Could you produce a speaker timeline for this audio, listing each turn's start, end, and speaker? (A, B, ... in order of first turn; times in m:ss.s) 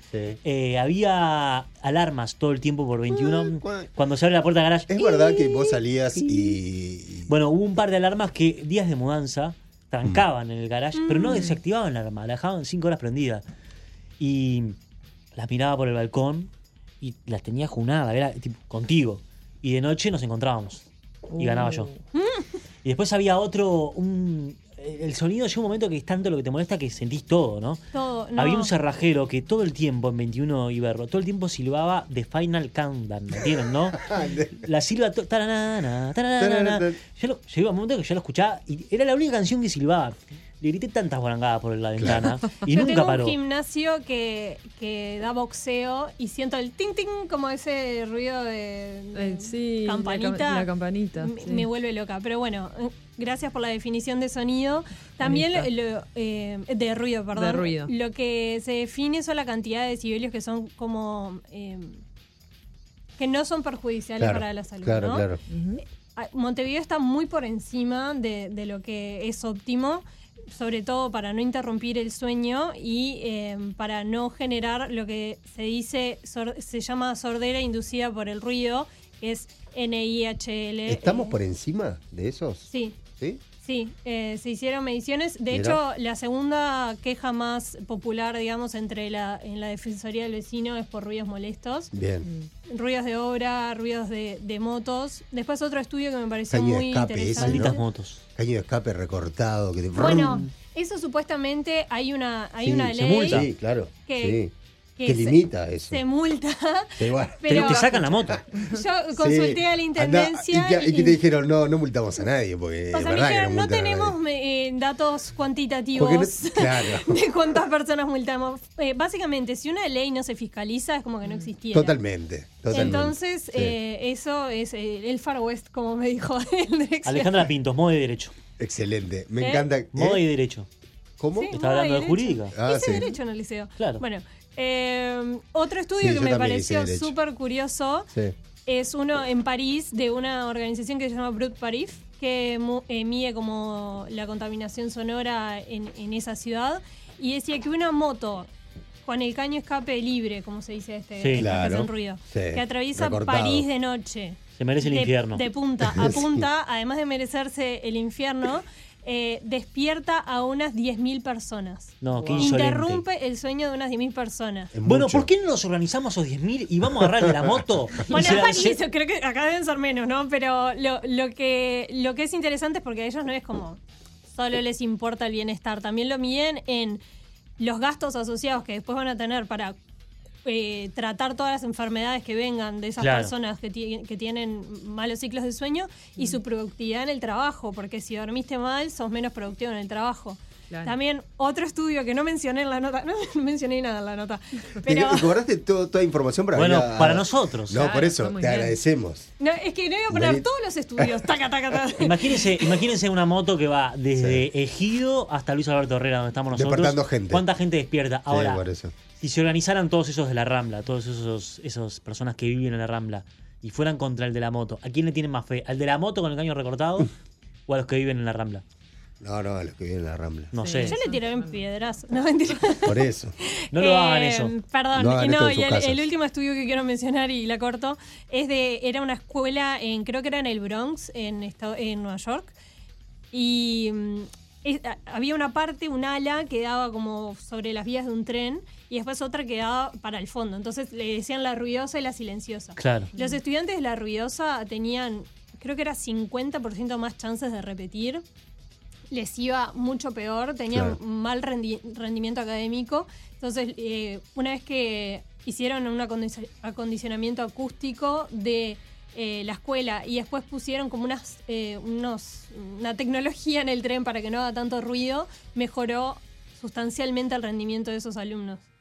0:00.1-0:00.4 A
0:00.4-0:04.9 B
0:03.5-0:03.9 A
0:04.9-0:07.3 A
0:04.9-0:06.6 C
0:07.3-0:13.4 B
0:11.0-0:11.5 C
0:14.2-0:14.8 B
0:15.3-0:16.5 B
0:17.0-0:21.9 B
0:21.3-0:22.0 D
0:22.1-0:22.5 C
0:22.8-0:27.8 B
0:27.9-0:28.7 C
0:28.4-0:43.4 B
0:34.0-0:34.5 A
0:36.4-0:37.0 A
0:42.0-0:42.2 A
0:42.7-0:50.7 C
0:49.1-0:51.6 D
0:51.2-1:02.0 C
0:55.2-0:55.7 D
0:57.3-0:57.9 D
1:03.2-1:05.3 C
1:04.2-1:05.4 A
1:05.5-1:05.8 D
1:06.1-1:21.4 C
1:20.8-1:23.4 A
1:22.7-1:23.0 C
1:23.6-1:31.9 C
1:25.5-1:25.8 A
1:31.9-1:32.3 A
1:32.7-1:37.8 C
1:36.5-1:37.8 A
1:37.4-1:38.2 B
1:38.3-1:40.4 A
1:40.0-1:43.5 C
1:42.6-1:44.5 A
1:42.9-1:43.5 B
1:44.0-1:44.4 C
1:45.0-1:51.2 C
1:45.0-1:46.0 A
1:47.0-1:47.7 A
1:47.5-1:48.4 B
1:47.6-1:48.8 D
1:49.2-1:54.2 A
1:52.9-2:02.0 C
1:55.9-1:57.2 A
2:01.7-2:03.8 A
2:02.7-2:07.4 C
2:07.0-2:08.3 B
2:08.6-2:10.2 A
2:09.4-2:09.7 C
2:09.9-2:10.7 B
2:11.2-2:11.5 A
2:11.3-2:18.1 C
2:11.5-2:12.6 B
2:12.5-2:13.1 A
2:13.8-2:14.0 B
2:16.0-2:17.1 A
2:18.6-2:28.5 C
2:29.0-2:44.7 C
2:31.2-2:31.5 B
2:31.3-2:33.7 A
2:34.6-2:35.4 B
2:35.8-2:36.4 A
2:42.0-2:43.0 B
2:42.1-2:42.6 A
2:44.7-2:45.3 A
2:44.8-2:48.8 B
2:48.1-2:57.0 C
2:57.6-2:59.7 C
3:00.4-3:15.4 C
3:03.0-3:03.3 B
3:14.8-3:19.3 A
3:16.5-3:17.8 B
3:17.7-3:18.8 D
3:19.4-3:22.8 C
3:20.1-3:20.4 A
3:22.0-3:28.6 B
3:24.2-3:24.4 A
3:26.5-3:27.4 A
3:28.3-3:28.9 A
3:29.2-3:37.1 B
3:37.7-3:38.6 B
3:39.2-3:40.5 A
3:40.5-3:41.0 B
3:40.5-3:41.6 D
3:40.8-3:52.5 C
3:42.8-3:43.3 A
3:43.7-3:44.5 B
3:44.9-3:46.0 A
3:53.3-4:08.2 C
4:02.8-4:03.1 B
4:09.1-4:28.6 C
4:10.7-4:11.0 A